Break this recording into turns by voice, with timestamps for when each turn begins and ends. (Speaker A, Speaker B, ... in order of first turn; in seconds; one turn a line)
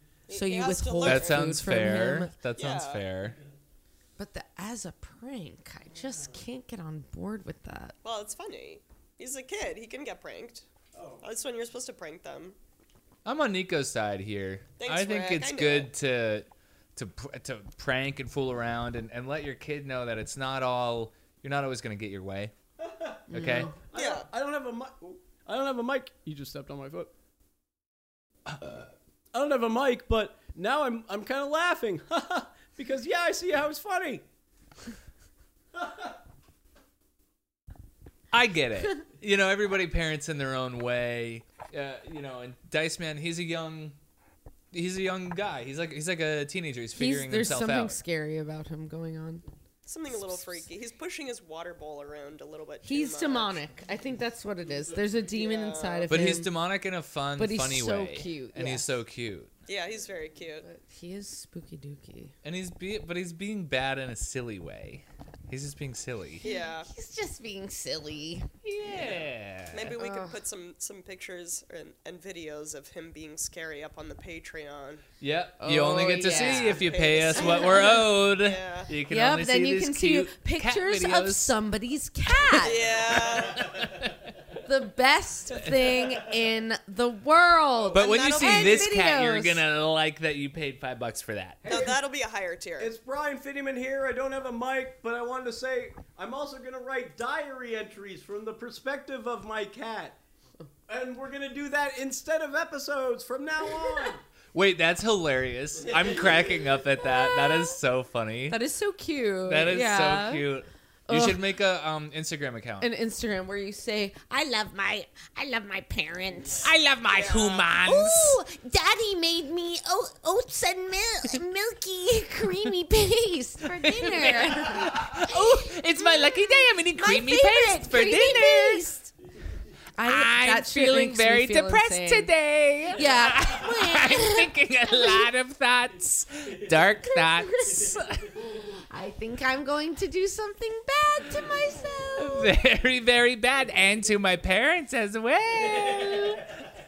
Speaker A: 0.3-1.5
Speaker B: 0.3-2.3
Speaker C: 1.0-3.4
Speaker A: 2.6-3.0
Speaker B: 4.2-8.0
Speaker A: 8.0-10.7
Speaker D: 10.9-11.2
Speaker A: 11.2-12.6
Speaker C: 13.2-22.5
Speaker A: 14.8-15.9
Speaker D: 22.8-27.1
Speaker B: 23.3-23.7
Speaker C: 23.3-23.8
Speaker A: 23.9-24.3
Speaker D: 29.3-34.2
Speaker D: 35.8-36.1
Speaker C: 38.3-44.0
Speaker C: 44.7-48.0
Speaker B: 46.9-49.5
Speaker A: 49.9-53.6
Speaker B: 52.8-56.5
Speaker A: 55.3-56.4
Speaker C: 56.1-59.5
Speaker B: 57.4-58.9
Speaker A: 59.7-60.7
Speaker B: 60.6-62.3
Speaker C: 62.4-66.5
Speaker A: 66.4-66.9
Speaker B: 66.4-68.5
Speaker C: 68.6-70.0
Speaker A: 68.9-75.1
Speaker B: 70.0-70.4
Speaker C: 75.2-81.6
Speaker B: 75.6-78.1
Speaker A: 76.3-78.9
Speaker B: 79.1-83.0
Speaker A: 82.6-83.8
Speaker C: 83.6-84.2
Speaker B: 84.6-89.6
Speaker A: 87.9-88.9
Speaker C: 87.9-91.8
Speaker D: 91.7-91.9
Speaker A: 91.7-92.9
Speaker D: 92.8-100.2
Speaker D: 100.9-104.2
Speaker C: 104.5-108.6
Speaker D: 105.8-106.6
Speaker B: 107.0-107.8
Speaker B: 108.5-110.5
Speaker C: 109.5-112.9
Speaker B: 111.1-111.4
Speaker B: 112.8-116.7
Speaker E: 116.6-118.4
Speaker A: 117.1-117.6
Speaker B: 117.8-129.1
Speaker E: 124.0-128.9
Speaker B: 130.0-132.3
Speaker E: 130.0-138.3
Speaker B: 132.9-135.3
Speaker B: 137.1-138.0
Speaker B: 138.7-142.5
Speaker E: 142.2-146.6